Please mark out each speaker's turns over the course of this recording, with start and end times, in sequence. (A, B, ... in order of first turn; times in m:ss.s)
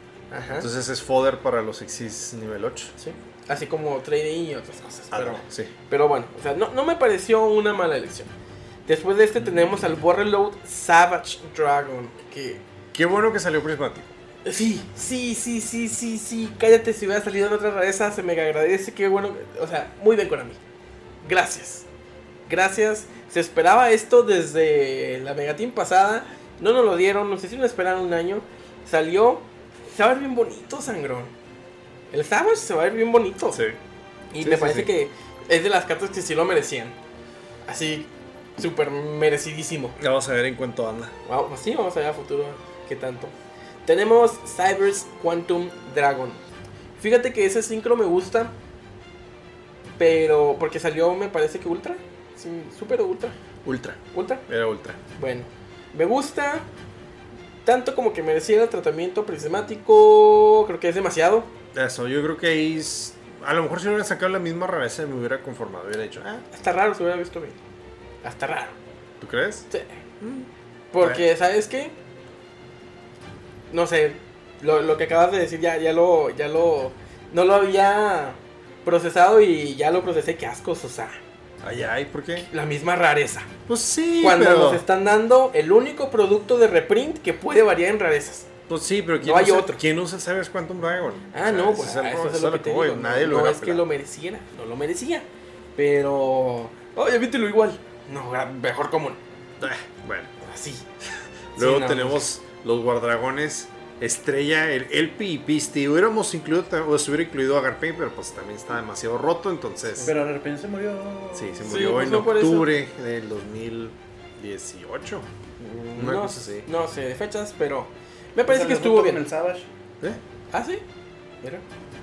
0:00.3-0:00.7 A
0:00.6-0:02.9 B
0:03.0-0:08.3 A
0:05.1-0:05.7 B
0:08.9-0:12.6 A
0:12.9-0:14.1 B
0:14.4-0:20.6 A
0:21.2-0:21.9 A
0:22.5-0:31.3 A
0:32.1-0:33.6 A
0:33.5-0:33.8 B
0:34.3-0:37.0 A
0:34.4-0:34.9 B
0:37.7-0:40.0 A
0:40.0-0:41.2 B
0:41.3-0:43.3 A
0:43.8-0:46.4 A
0:47.0-0:48.5 A
0:50.0-0:53.4 A
0:53.6-0:55.0 B
0:54.1-0:54.5 A
0:55.2-0:56.7 A
0:57.6-1:01.5 A
1:01.7-1:06.4 B
1:06.5-1:07.6 A
1:08.2-1:08.8 A
1:09.2-1:09.7 B
1:09.7-1:10.0 A
1:10.2-1:10.5 B
1:10.9-1:11.9 A
1:13.7-1:21.2 A
1:21.6-1:22.5 B
1:22.4-1:23.5 A
1:23.7-1:24.8 B
1:24.2-1:28.5 A
1:28.7-1:33.9 B
1:29.2-1:29.8 A
1:31.3-1:39.2 A
1:39.6-1:40.3 B
1:40.4-1:40.8 A
1:41.6-1:50.2 B
1:41.6-1:42.2 A
1:50.0-1:51.9 C
1:51.3-1:55.3 B
1:51.6-1:52.7 A
1:55.6-1:59.3 A
1:56.0-1:56.7 B
1:58.5-1:59.7 C
2:00.5-2:00.8 A